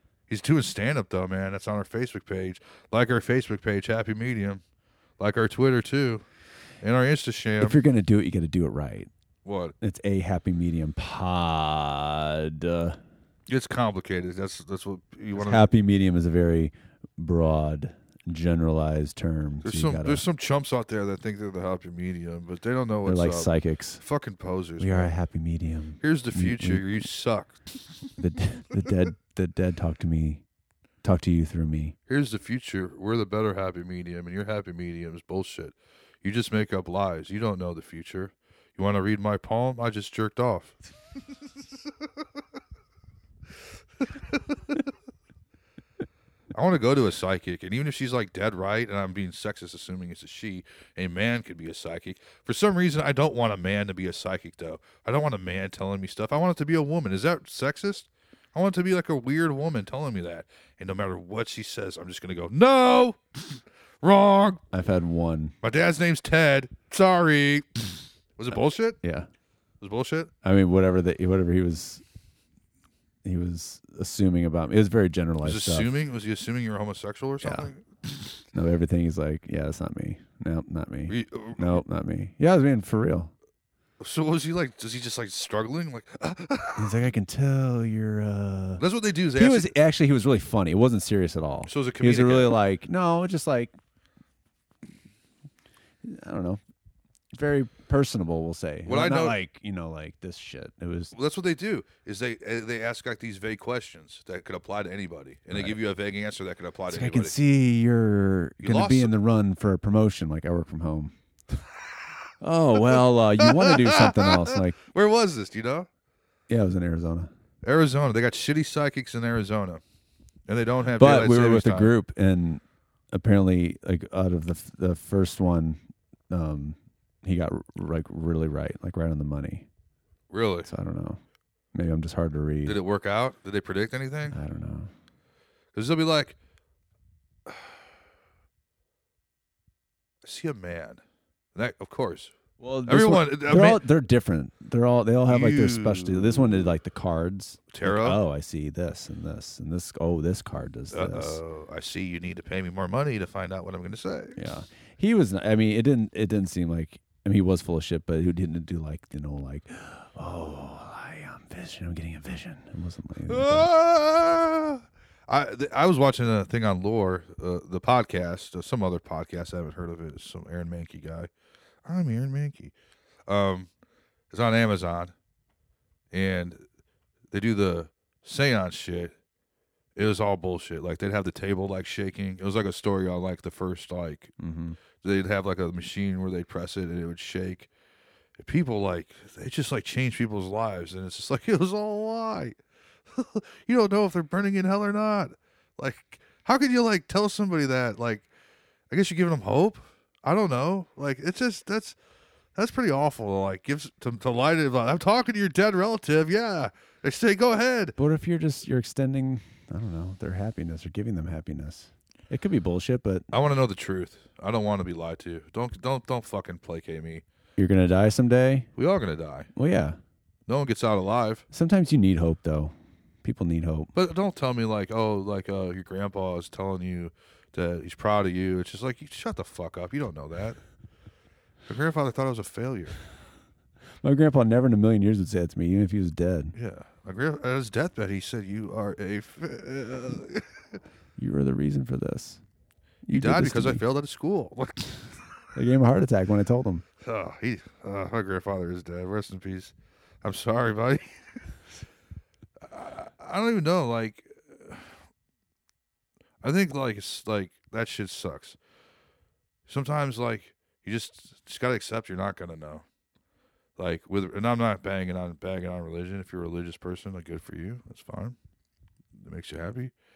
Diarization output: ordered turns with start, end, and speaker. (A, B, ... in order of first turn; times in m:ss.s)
0:00.3-0:04.6 A
0:05.2-0:06.2 A
0:06.8-0:07.8 A
0:07.6-0:09.1 B
0:09.4-0:09.7 A
0:09.8-0:13.0 B
0:13.5-0:15.7 A
0:15.3-0:20.2 B
0:19.6-0:25.1 A
0:23.0-0:24.0 B
0:24.8-0:27.0 B
0:26.0-0:27.6 A
0:28.2-0:30.4 B
0:31.0-0:32.0 B
0:32.1-0:40.8 A
0:44.0-0:44.9 A
0:46.5-1:04.6 A
1:04.7-1:05.5 B
1:05.6-1:09.0 A
1:09.0-1:09.3 B
1:09.8-1:10.3 A
1:10.4-1:12.0 B
1:13.2-1:15.9 B
1:15.4-1:18.4 A
1:17.4-1:17.7 B
1:18.5-1:23.3 B
1:21.1-1:21.8 A
1:24.0-1:26.9 A
1:26.8-1:28.8 B
1:28.8-1:29.7 A
1:29.3-1:33.7 B
1:31.7-1:32.6 A
1:36.0-1:36.6 B
1:37.3-1:41.1 B
1:38.8-1:39.4 A
1:41.1-1:47.4 A
1:45.5-1:45.8 B
1:46.9-1:51.2 B
1:48.6-1:49.1 A
1:51.8-1:52.2 A
1:52.4-1:54.8 B
1:52.8-1:55.9 A
1:56.5-1:57.3 B
1:57.6-1:59.8 A
2:00.5-2:01.9 A
2:01.0-2:05.8 B
2:06.3-2:09.7 B
2:10.3-2:10.7 A
2:10.7-2:11.2 B
2:11.7-2:12.8 B
2:12.6-2:14.4 A
2:14.3-2:14.9 B
2:15.7-2:16.4 A
2:17.4-2:17.8 A
2:20.2-2:21.0 A
2:21.5-2:22.3 A
2:22.6-2:31.4 B
2:22.9-2:23.8 A
2:25.3-2:26.7 A
2:27.7-2:28.2 A
2:30.9-2:34.4 A
2:34.4-2:43.7 B
2:43.3-2:51.3 A
2:51.8-2:52.7 A
2:53.3-2:53.7 A
2:54.3-2:55.1 A
2:56.1-2:56.6 A
2:57.3-2:59.2 A
3:00.0-3:04.3 A
3:04.4-3:04.8 B
3:04.9-3:07.7 A
3:08.4-3:18.3 A
3:18.9-3:22.0 A
3:22.6-3:27.9 A
3:28.0-3:33.3 B
3:33.3-3:37.2 A
3:37.6-3:38.7 B
3:38.8-3:39.5 A
3:39.5-3:40.0 B
3:40.5-3:41.4 A
3:41.5-3:42.7 B
3:43.2-3:43.9 B
3:43.9-3:50.6 A
3:51.7-3:53.0 A
3:54.0-3:56.5 B
3:56.6-4:00.8 A
4:01.2-4:02.4 B
4:03.0-4:03.8 B
4:03.1-4:05.3 A
4:05.5-4:06.8 B
4:07.0-4:11.4 A
4:12.6-4:15.0 A
4:16.4-4:18.6 A
4:19.7-4:22.8 A
4:23.8-4:28.4 A
4:29.1-4:29.9 A